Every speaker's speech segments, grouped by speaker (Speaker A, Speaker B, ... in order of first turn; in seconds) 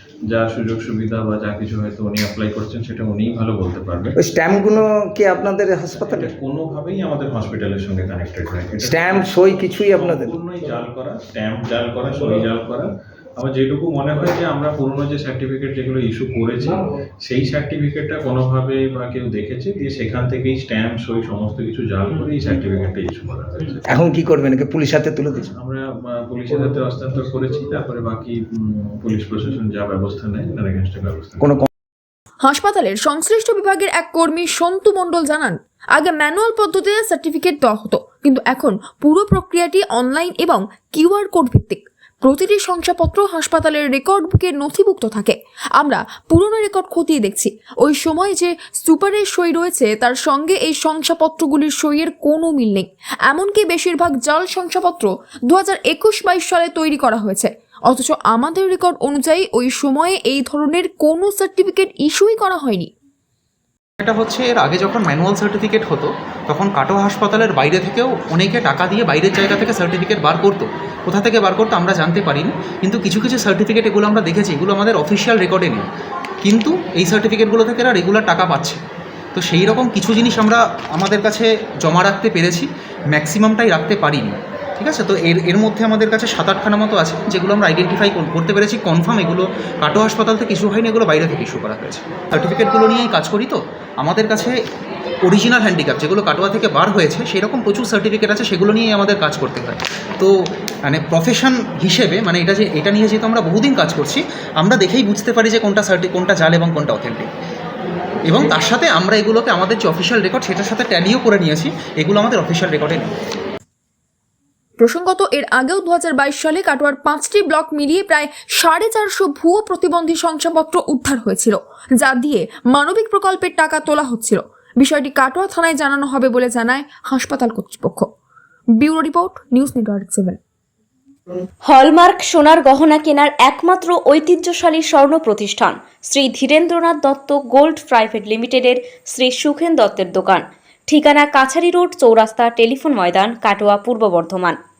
Speaker A: 0.3-4.2, 6.0-23.9, 25.4-31.5
Speaker B: 4.2-6.3, 8.8-10.3, 23.9-25.5, 31.4-31.7
Speaker C: 32.4-62.9, 114.8-128.1, 128.8-130.4
Speaker D: 64.0-75.9, 76.4-78.8, 79.3-94.5, 95.2-100.3, 100.9-107.3, 108.3-113.1
Speaker E: 131.7-144.6